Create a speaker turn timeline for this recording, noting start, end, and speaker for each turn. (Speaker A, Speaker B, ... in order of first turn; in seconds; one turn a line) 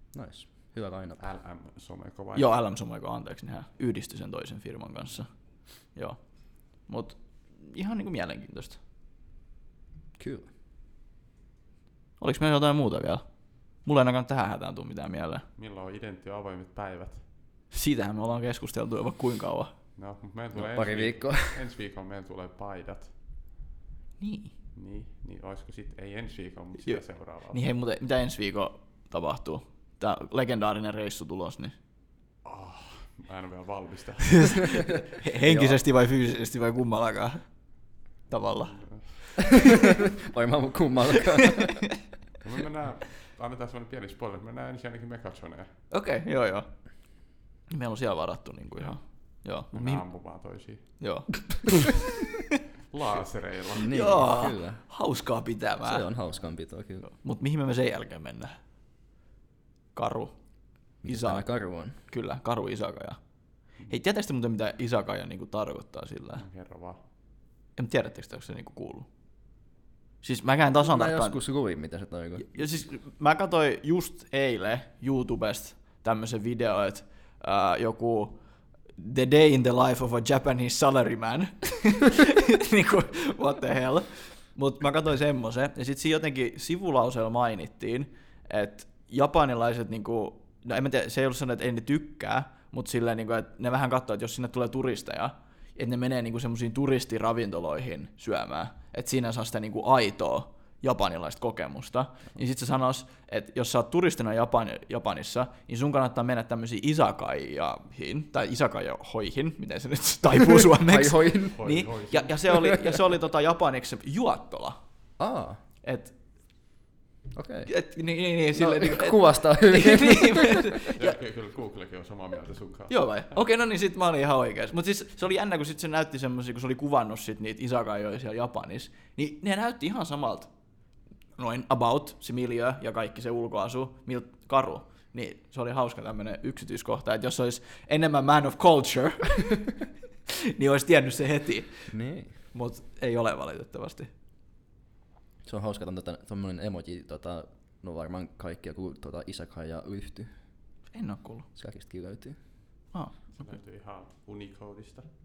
Speaker A: 0.1-1.2
Speaker B: 1.2-2.5
Speaker C: 2.3-8.8
Speaker A: 10.2-10.5
Speaker C: 12.2-15.4
Speaker B: 15.6-17.2
Speaker C: 17.7-19.8
Speaker B: 19.9-23.1
Speaker A: 20.5-21.6
Speaker C: 24.2-24.5
Speaker B: 24.7-27.6
Speaker C: 26.8-31.7
Speaker B: 32.4-34.7
Speaker C: 34.5-39.4
Speaker A: 35.4-35.8
Speaker B: 38.7-39.1
Speaker A: 40.2-42.0
Speaker B: 42.4-45.7
Speaker C: 45.9-50.2
Speaker B: 48.8-50.8
Speaker C: 50.8-52.0
Speaker B: 52.9-54.0
Speaker A: 53.8-54.8
Speaker C: 53.8-56.1
Speaker A: 55.8-57.1
Speaker C: 57.0-58.5
Speaker C: 59.9-66.4
Speaker A: 61.0-62.0
Speaker B: 66.4-67.0
Speaker C: 67.8-69.1
Speaker C: 70.2-71.4
Speaker A: 70.8-72.5
Speaker C: 72.4-114.8
Speaker A: 110.8-111.8
Speaker B: 111.5-112.4
Speaker A: 112.5-112.9
Speaker A: 115.2-115.6
Speaker C: 115.8-116.6
Speaker A: 117.3-117.7
Speaker C: 117.7-121.2
Speaker A: 118.5-120.7
Speaker B: 121.0-123.0
Speaker C: 122.9-130.5
Speaker C: 131.3-139.8
Speaker C: 140.5-144.1
Speaker A: 141.9-142.3
Speaker A: 145.4-150.3
Speaker C: 150.9-151.5
Speaker A: 151.5-152.4
Speaker C: 152.9-153.4
Speaker B: 153.3-155.1